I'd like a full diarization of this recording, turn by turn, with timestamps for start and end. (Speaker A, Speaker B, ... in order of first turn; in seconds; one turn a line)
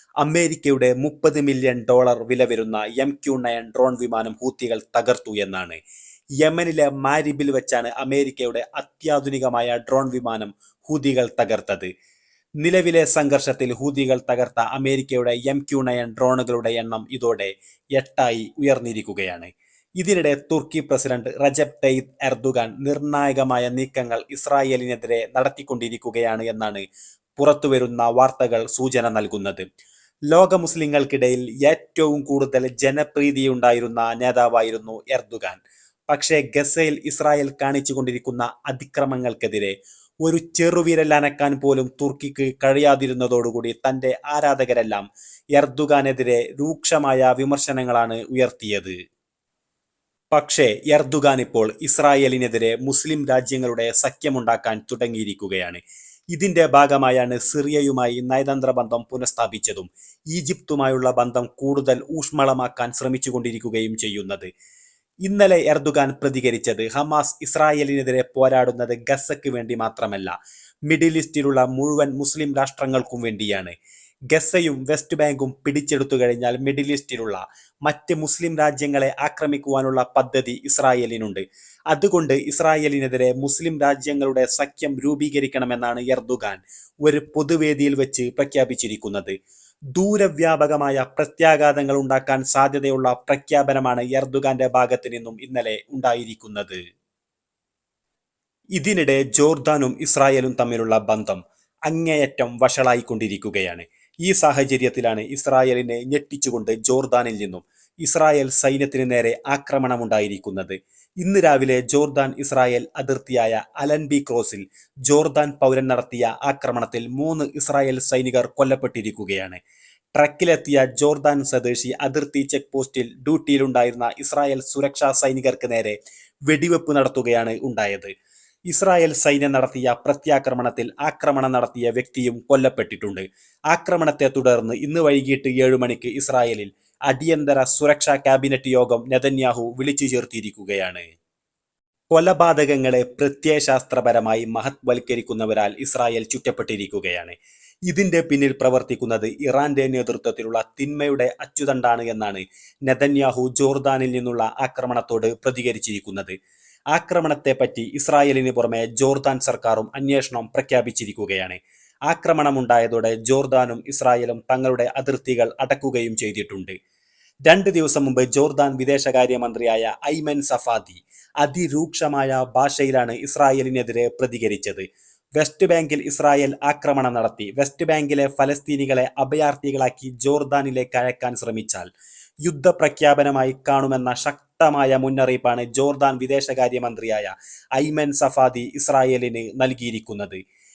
Speaker A: 0.2-5.8
Speaker A: 6.4-11.9
Speaker A: 12.6-26.8
Speaker A: 27.4-29.6
Speaker A: 30.3-48.9
Speaker A: 50.3-55.8
Speaker A: 56.3-64.5
Speaker A: 65.2-70.3
Speaker A: 70.9-73.7
Speaker A: 74.3-89.3
Speaker A: 89.9-96.8
Speaker A: 98.8-119.6
Speaker A: 120.2-125.9
Speaker A: 126.5-128.1
Speaker A: 128.7-141.0
Speaker A: 142.1-147.3
Speaker A: 147.9-156.3
Speaker A: 156.9-161.6
Speaker A: 162.1-166.7
Speaker A: 167.4-174.8
Speaker A: 175.4-181.8
Speaker A: 182.4-190.4